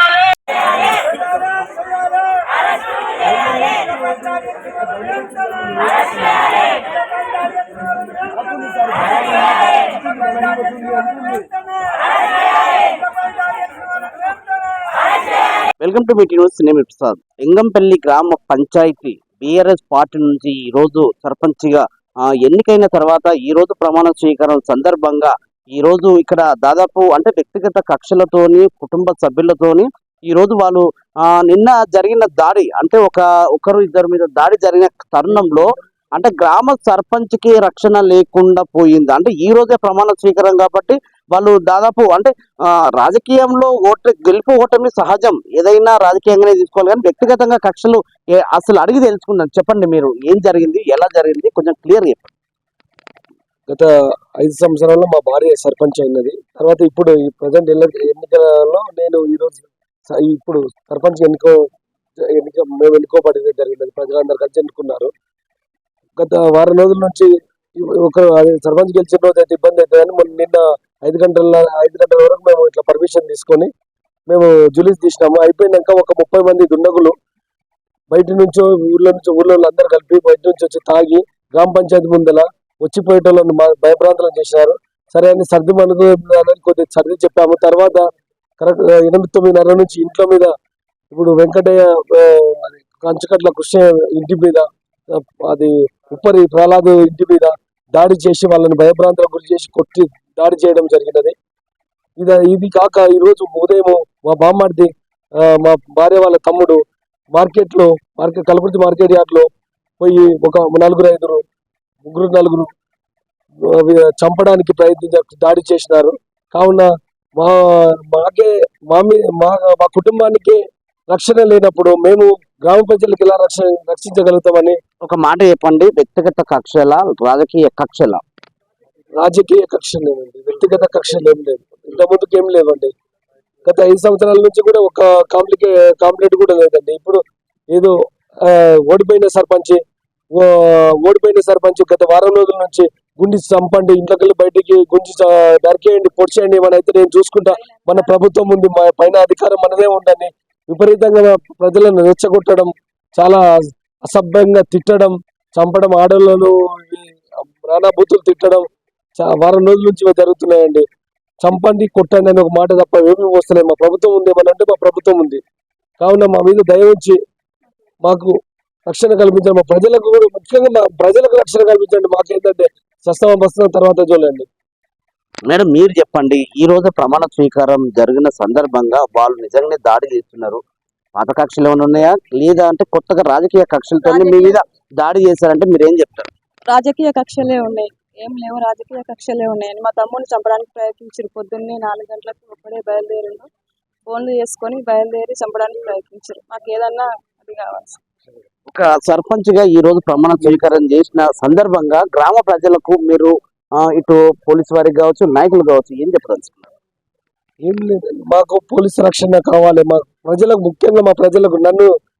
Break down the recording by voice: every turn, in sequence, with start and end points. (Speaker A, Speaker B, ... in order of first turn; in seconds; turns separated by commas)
Speaker A: 15.8-52.3, Speaker B: 53.7-61.5, Speaker B: 62.3-65.1, Speaker B: 66.2-67.3, Speaker B: 67.8-73.7, Speaker B: 74.3-77.1, Speaker B: 78.1-88.0, Speaker B: 88.6-90.5, Speaker B: 91.1-101.3, Speaker B: 102.2-104.9, Speaker B: 105.6-106.8, Speaker B: 107.3-109.5, Speaker B: 110.0-111.4, Speaker B: 112.0-112.7, Speaker B: 113.7-124.8, Speaker A: 125.0-128.2, Speaker B: 129.2-132.9, Speaker B: 133.7-137.2, Speaker B: 138.4-139.8, Speaker B: 140.3-153.4, Speaker C: 147.4-148.2, Speaker B: 154.0-158.6, Speaker B: 159.2-160.8, Speaker B: 161.4-165.4, Speaker B: 166.0-167.2, Speaker B: 168.0-168.3, Speaker B: 168.9-174.5, Speaker A: 175.5-180.6, Speaker A: 181.1-186.3, Speaker C: 184.0-184.6, Speaker C: 186.7-193.5, Speaker C: 194.1-198.0, Speaker A: 198.7-206.7, Speaker B: 207.6-211.9